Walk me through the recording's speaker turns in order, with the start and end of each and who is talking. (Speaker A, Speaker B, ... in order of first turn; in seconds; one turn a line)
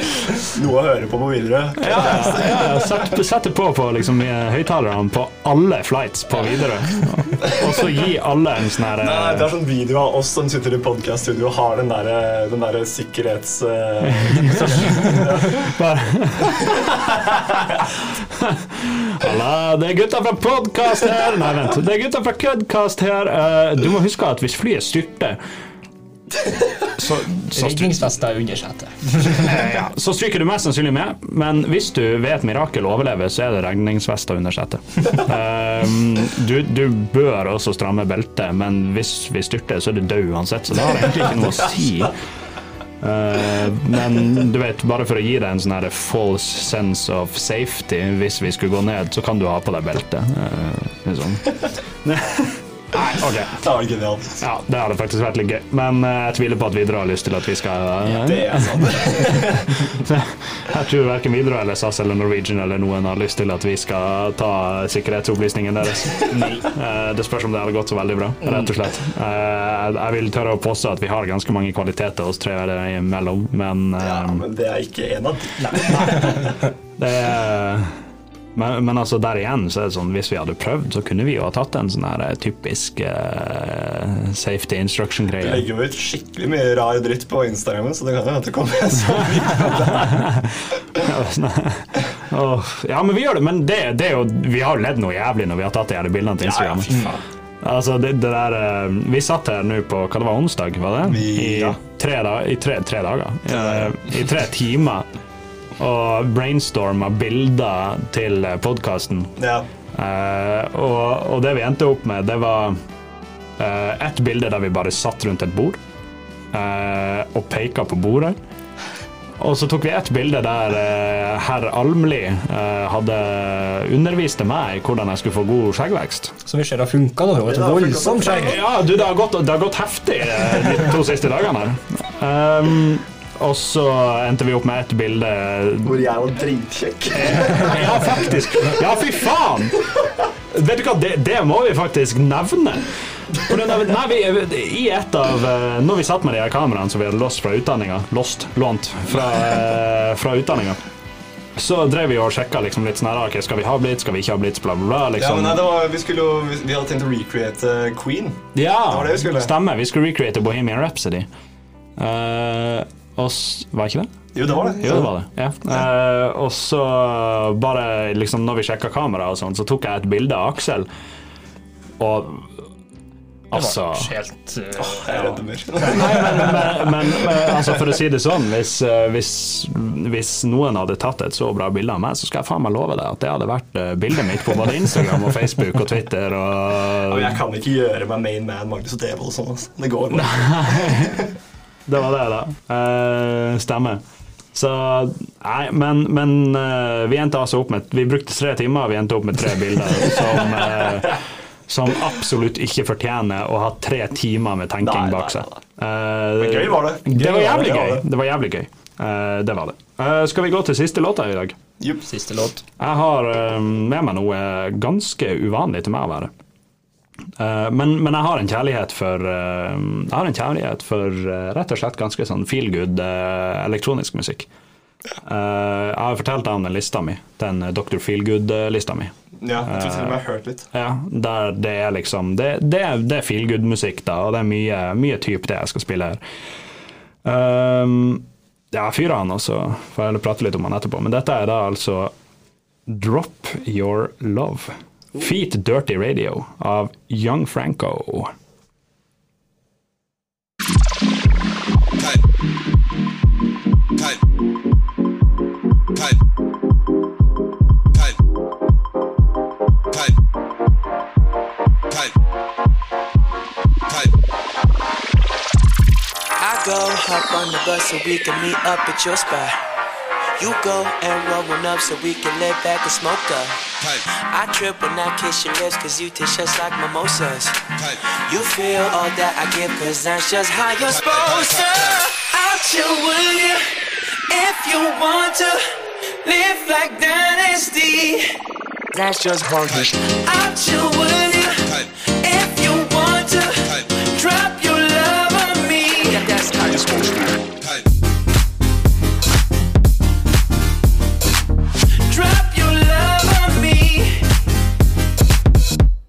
Speaker A: 0.4-3.0
Speaker B: 1.8-9.5
Speaker A: 9.0-15.7
Speaker B: 14.0-25.4
Speaker C: 14.4-15.2
Speaker B: 26.9-28.1
Speaker C: 27.5-29.7
Speaker B: 29.4-42.2
Speaker B: 43.0-53.6
Speaker A: 52.9-54.4
Speaker B: 54.4-74.4
Speaker A: 58.0-60.0
Speaker C: 66.3-66.7
Speaker C: 68.4-68.7
Speaker A: 74.0-76.5
Speaker C: 75.6-76.5
Speaker B: 76.1-76.3
Speaker B: 77.0-78.0
Speaker B: 78.5-85.7
Speaker A: 85.4-90.4
Speaker B: 89.1-97.1
Speaker A: 96.4-97.0
Speaker C: 96.9-97.2
Speaker B: 97.6-105.1
Speaker A: 101.0-101.8
Speaker A: 103.5-104.1
Speaker B: 105.8-109.4
Speaker A: 109.4-109.7
Speaker B: 109.9-112.8
Speaker B: 113.6-115.8
Speaker B: 116.5-118.4
Speaker B: 119.4-126.3
Speaker C: 126.4-128.6
Speaker A: 127.4-128.6
Speaker B: 128.3-136.1
Speaker A: 135.8-138.2
Speaker B: 137.2-139.8
Speaker B: 140.5-150.8
Speaker B: 151.6-155.7
Speaker A: 155.2-159.5
Speaker B: 158.5-161.3
Speaker B: 162.0-164.1
Speaker A: 164.3-165.1
Speaker B: 164.8-170.9
Speaker B: 172.0-172.7
Speaker B: 173.5-174.1
Speaker C: 173.5-176.2
Speaker A: 174.8-177.8
Speaker B: 175.8-187.4
Speaker A: 187.1-191.3
Speaker B: 190.1-191.2
Speaker B: 191.9-194.0
Speaker B: 194.5-211.6
Speaker A: 204.8-205.6
Speaker A: 206.4-208.0
Speaker C: 207.2-207.5
Speaker A: 211.8-212.1
Speaker C: 212.1-212.6
Speaker B: 212.8-216.3
Speaker B: 217.4-224.5
Speaker B: 225.2-230.2
Speaker A: 229.4-230.7
Speaker B: 230.7-236.2
Speaker B: 237.2-242.1
Speaker B: 242.9-248.3
Speaker D: 266.4-269.6
Speaker D: 270.4-285.6
Speaker D: 286.2-288.4
Speaker D: 288.9-297.5
Speaker D: 302.1-304.3